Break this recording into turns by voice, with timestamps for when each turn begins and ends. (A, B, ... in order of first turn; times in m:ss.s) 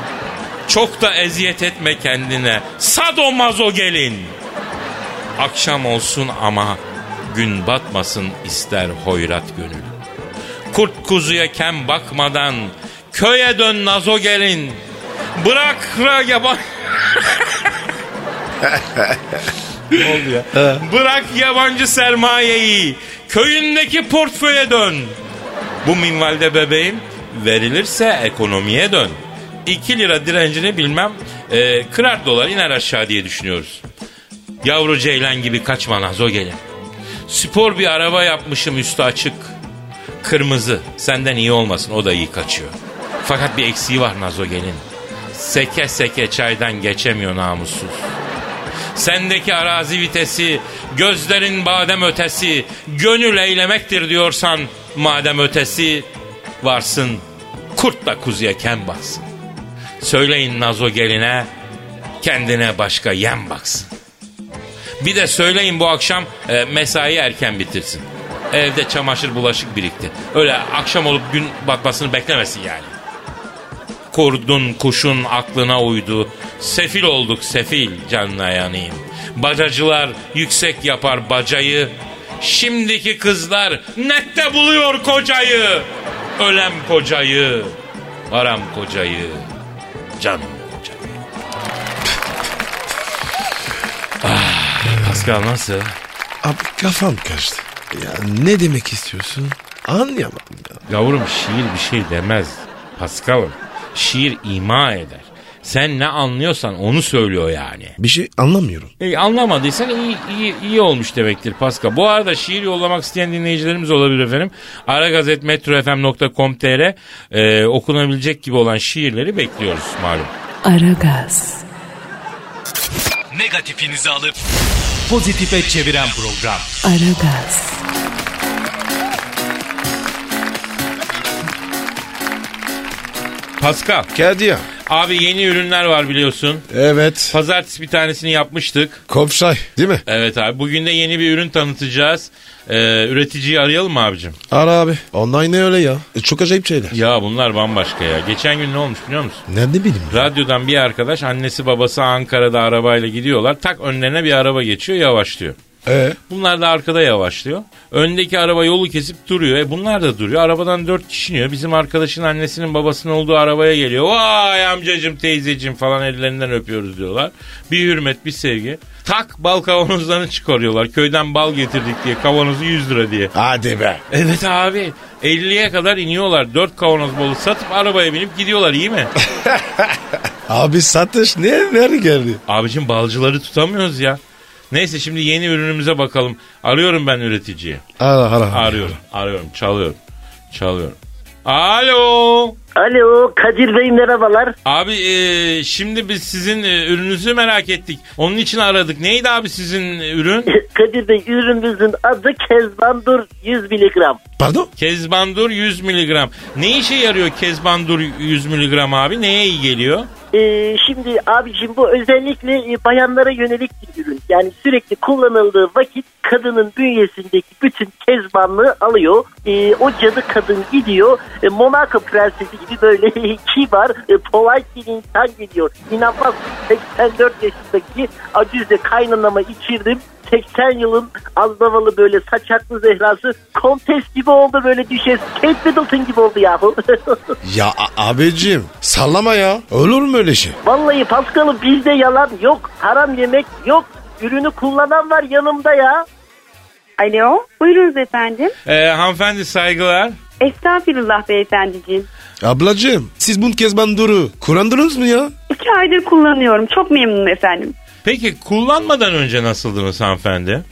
0:00.7-0:04.3 A
0:05.4-0:10.0 A
0:10.7-0:14.8 A
0:15.4-0:17.7 A
0:18.6-0:19.4 B
0:19.9-0:25.2 A
0:20.5-0:20.8 B
0:25.8-0:33.8 A
0:34.6-0:36.6 A
0:37.3-0:39.5 A
0:40.2-0:48.1 A
0:48.9-0:56.1 A
0:56.6-0:57.2 A
0:57.7-0:59.2 A
1:00.0-1:01.5 A
1:02.2-1:03.9 A
1:05.0-1:12.9 A
1:14.1-1:27.8 A
1:28.3-1:29.4 A
1:30.2-1:31.2 A
1:34.2-1:36.0 A
1:36.4-1:40.8 B
1:40.9-1:48.0 A
1:48.0-1:48.9 B
1:49.0-2:00.3 A
2:00.6-2:01.6 C
2:03.3-2:04.4 D
2:05.1-2:06.8 D
2:06.8-2:07.8 C
2:13.6-2:14.1 A
2:14.1-2:14.6 B
2:14.8-2:16.7 A
2:16.7-2:17.4 B
2:17.3-2:19.0 A
2:19.1-2:20.0 B
2:20.0-2:24.4 A
2:24.5-2:27.0 B
2:26.9-2:29.4 A
2:29.5-2:30.3 B
2:30.1-2:35.6 A
2:35.8-2:36.2 B
2:36.3-2:53.3 A
2:53.3-2:54.0 B
2:54.1-2:59.1 A
2:59.2-3:02.4 B
3:02.5-3:07.8 A
3:08.0-3:09.0 B
3:08.5-3:10.0 A
3:10.5-3:12.6 A
3:12.8-3:14.5 E
3:14.6-3:20.5 A
3:20.5-3:24.2 E
3:24.4-3:24.7 B
3:24.8-3:30.1 A
3:30.3-3:57.4 E
3:57.4-4:00.6 B
4:00.6-4:06.0 E
4:07.0-4:08.6 F
4:08.6-4:10.2 A
4:10.4-4:12.1 F
4:12.4-4:15.3 B
4:15.5-4:17.7 F
4:18.0-4:20.6 A